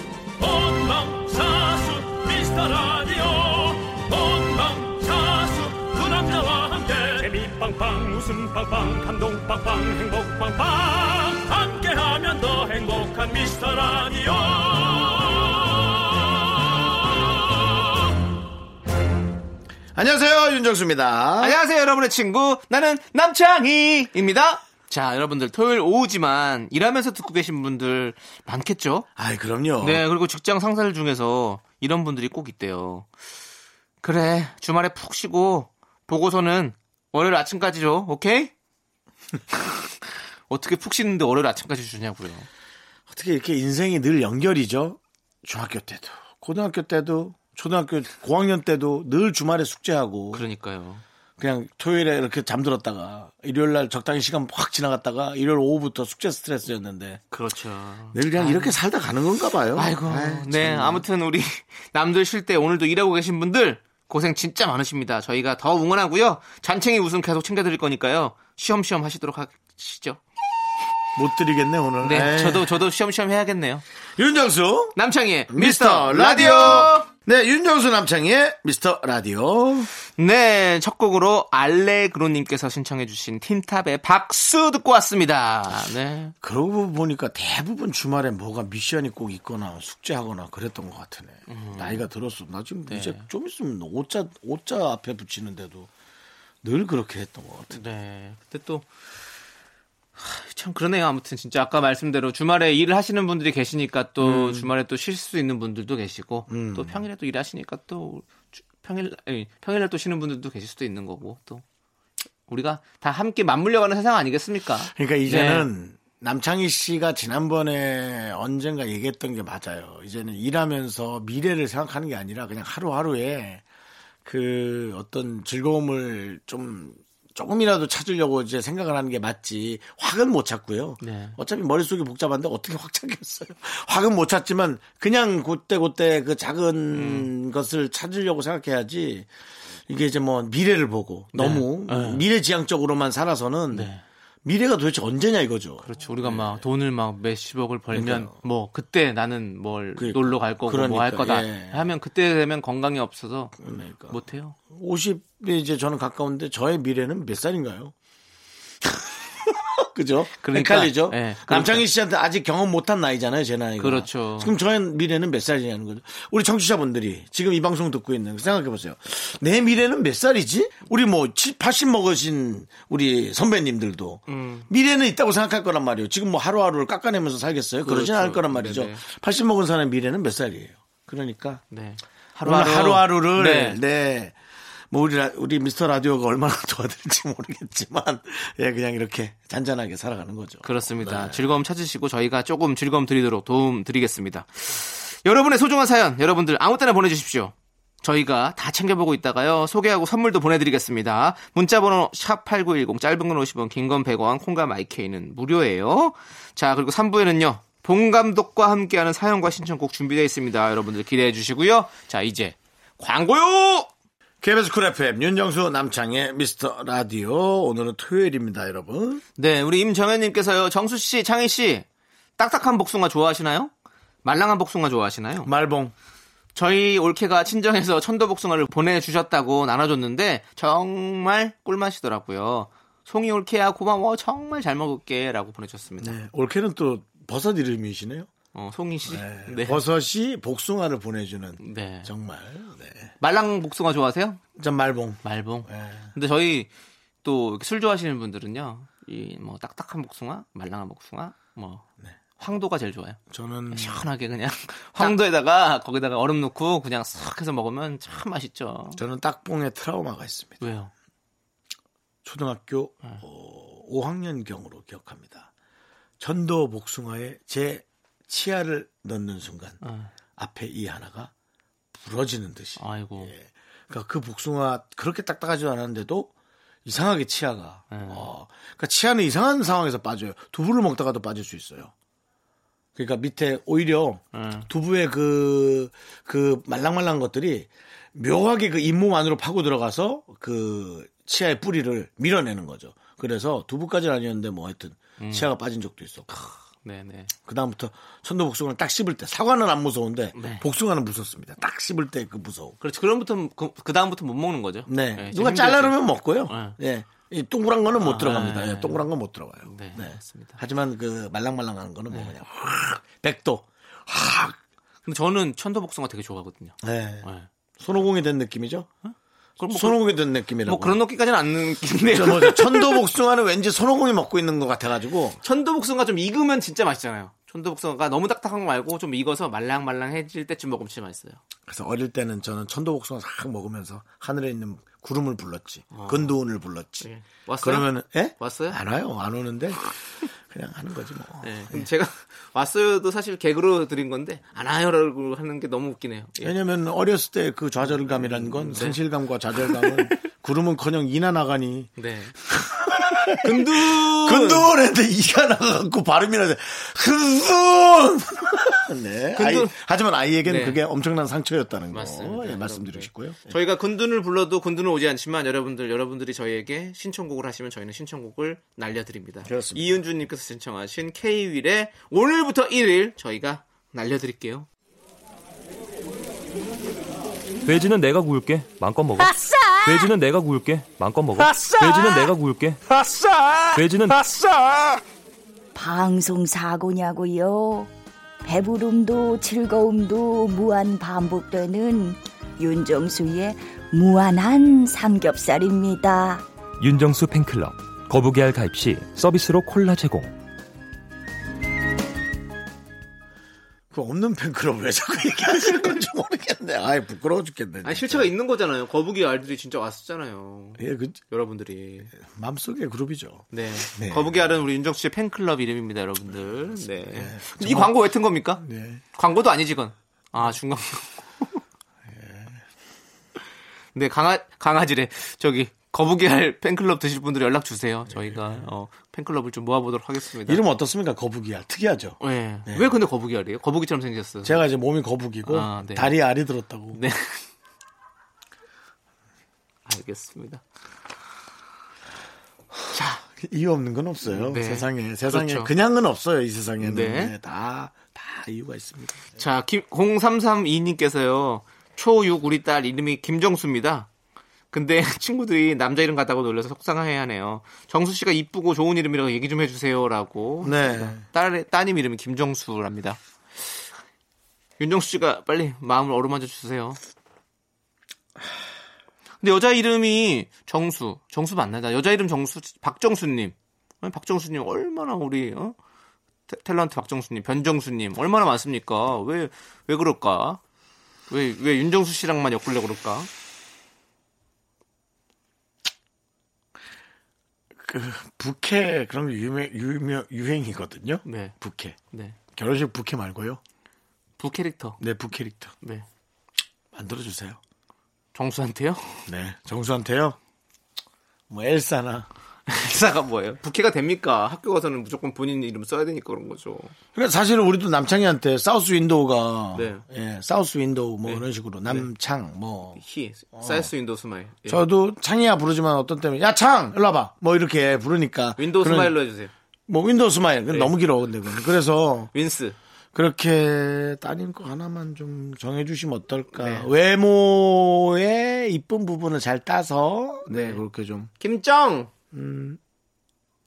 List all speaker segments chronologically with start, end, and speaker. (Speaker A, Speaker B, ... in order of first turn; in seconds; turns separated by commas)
Speaker A: 0.4-18.0, Speaker B: 19.9-21.6, Speaker C: 21.4-29.1, Speaker B: 29.2-30.0, Speaker C: 29.8-33.1, Speaker C: 34.0-38.5, Speaker C: 40.5-42.5, Speaker B: 43.1-50.4, Speaker C: 50.3-51.0, Speaker B: 51.4-57.2, Speaker C: 57.3-58.8, Speaker B: 58.1-61.0, Speaker C: 59.8-70.2, Speaker B: 71.2-72.8, Speaker C: 72.0-73.8, Speaker B: 74.2-75.0, Speaker C: 75.0-77.1, Speaker B: 75.5-79.9, Speaker C: 80.2-86.3, Speaker B: 86.4-95.9, Speaker C: 91.5-92.1, Speaker C: 92.9-93.3, Speaker B: 96.6-97.8, Speaker C: 97.7-98.9, Speaker C: 100.2-111.6, Speaker B: 104.2-104.7, Speaker B: 106.5-107.0, Speaker C: 112.5-115.7, Speaker B: 114.9-123.6, Speaker B: 124.2-139.3, Speaker C: 131.0-131.4, Speaker C: 136.9-137.3, Speaker B: 139.9-143.9, Speaker C: 141.3-142.2, Speaker C: 143.7-144.0, Speaker B: 144.4-146.7, Speaker C: 145.8-153.6, Speaker B: 147.9-148.4, Speaker B: 150.0-151.9, Speaker B: 153.6-157.9, Speaker C: 154.1-154.6, Speaker B: 158.9-181.6, Speaker C: 160.4-161.9, Speaker C: 163.8-164.5, Speaker C: 174.3-174.7, Speaker C: 177.8-179.0, Speaker C: 181.7-183.8, Speaker B: 182.4-184.4, Speaker B: 184.9-191.4, Speaker C: 190.6-213.9, Speaker B: 214.4-219.2, Speaker C: 219.4-221.9, Speaker C: 222.4-223.7, Speaker C: 224.2-225.5, Speaker B: 225.4-225.9, Speaker C: 226.6-236.2, Speaker B: 236.0-238.3, Speaker C: 238.5-239.8, Speaker B: 239.1-243.1, Speaker C: 241.6-242.1, Speaker C: 243.2-244.4, Speaker B: 244.6-246.1, Speaker C: 245.2-246.7, Speaker C: 247.2-251.8, Speaker C: 252.4-253.2, Speaker B: 253.3-254.0, Speaker C: 253.7-259.0, Speaker B: 259.0-260.6, Speaker C: 260.6-260.9, Speaker B: 262.2-265.5, Speaker B: 266.2-269.8, Speaker C: 269.8-270.1, Speaker B: 270.4-271.3, Speaker B: 271.9-276.3, Speaker C: 272.8-273.3, Speaker B: 276.9-281.9, Speaker C: 277.9-278.3, Speaker B: 283.0-296.3, Speaker C: 284.3-284.7, Speaker C: 295.2-295.5, Speaker C: 296.3-297.3, Speaker B: 297.4-302.8, Speaker C: 300.4-300.7, Speaker C: 302.8-306.8, Speaker B: 304.9-314.6, Speaker C: 308.0-309.1, Speaker C: 309.6-310.6, Speaker C: 315.1-317.5, Speaker B: 316.8-317.3, Speaker B: 317.8-318.9, Speaker C: 319.0-323.0, Speaker B: 319.7-321.0, Speaker B: 322.1-325.4, Speaker C: 325.4-331.4, Speaker B: 331.7-337.1, Speaker C: 335.9-336.3, Speaker C: 337.0-338.8, Speaker B: 337.6-341.9, Speaker C: 341.4-346.5, Speaker B: 346.4-351.9, Speaker C: 348.4-349.0, Speaker C: 349.6-349.9, Speaker C: 352.0-352.4, Speaker B: 352.4-363.5, Speaker C: 353.3-354.7, Speaker C: 359.4-359.8, Speaker C: 360.4-360.8, Speaker C: 361.9-374.7, Speaker B: 369.5-370.0, Speaker D: 377.6-383.0, Speaker D: 383.7-384.5, Speaker E: 385.8-387.9, Speaker E: 388.4-396.4, Speaker D: 396.8-400.3, Speaker B: 403.9-408.3, Speaker C: 407.8-412.1, Speaker B: 410.8-411.2, Speaker B: 412.1-414.6, Speaker C: 413.5-418.6, Speaker B: 417.1-418.0, Speaker B: 418.6-419.0, Speaker C: 419.1-421.6, Speaker B: 422.1-422.6, Speaker C: 423.9-430.6, Speaker B: 428.1-428.6, Speaker B: 430.5-432.9, Speaker C: 432.2-434.6, Speaker B: 434.4-437.0, Speaker C: 435.5-436.1, Speaker C: 436.9-437.4, Speaker C: 439.9-440.6, Speaker C: 442.9-443.2, Speaker B: 443.3-449.3, Speaker C: 444.3-445.7, Speaker C: 446.8-447.4, Speaker C: 449.4-454.1, Speaker C: 454.7-463.2, Speaker B: 460.6-461.2, Speaker C: 464.8-467.0, Speaker C: 469.4-475.8, Speaker C: 476.5-480.6, Speaker C: 481.3-483.3, Speaker B: 487.8-492.0, Speaker C: 491.2-491.6, Speaker C: 492.1-492.4, Speaker B: 492.5-493.6, Speaker C: 494.4-495.0, Speaker B: 495.0-495.7, Speaker C: 495.8-496.1, Speaker B: 496.9-497.6, Speaker C: 498.3-499.3, Speaker B: 499.3-500.4, Speaker B: 501.5-502.3, Speaker C: 502.7-506.9, Speaker B: 507.1-513.0, Speaker C: 509.8-510.0, Speaker C: 511.3-512.1, Speaker C: 513.0-514.9, Speaker B: 513.5-513.9, Speaker B: 514.7-519.2, Speaker C: 518.6-519.5, Speaker B: 519.9-522.3, Speaker C: 522.3-522.8, Speaker B: 523.1-531.3, Speaker C: 526.5-526.9, Speaker C: 530.5-530.8, Speaker C: 531.4-532.1, Speaker B: 532.3-532.8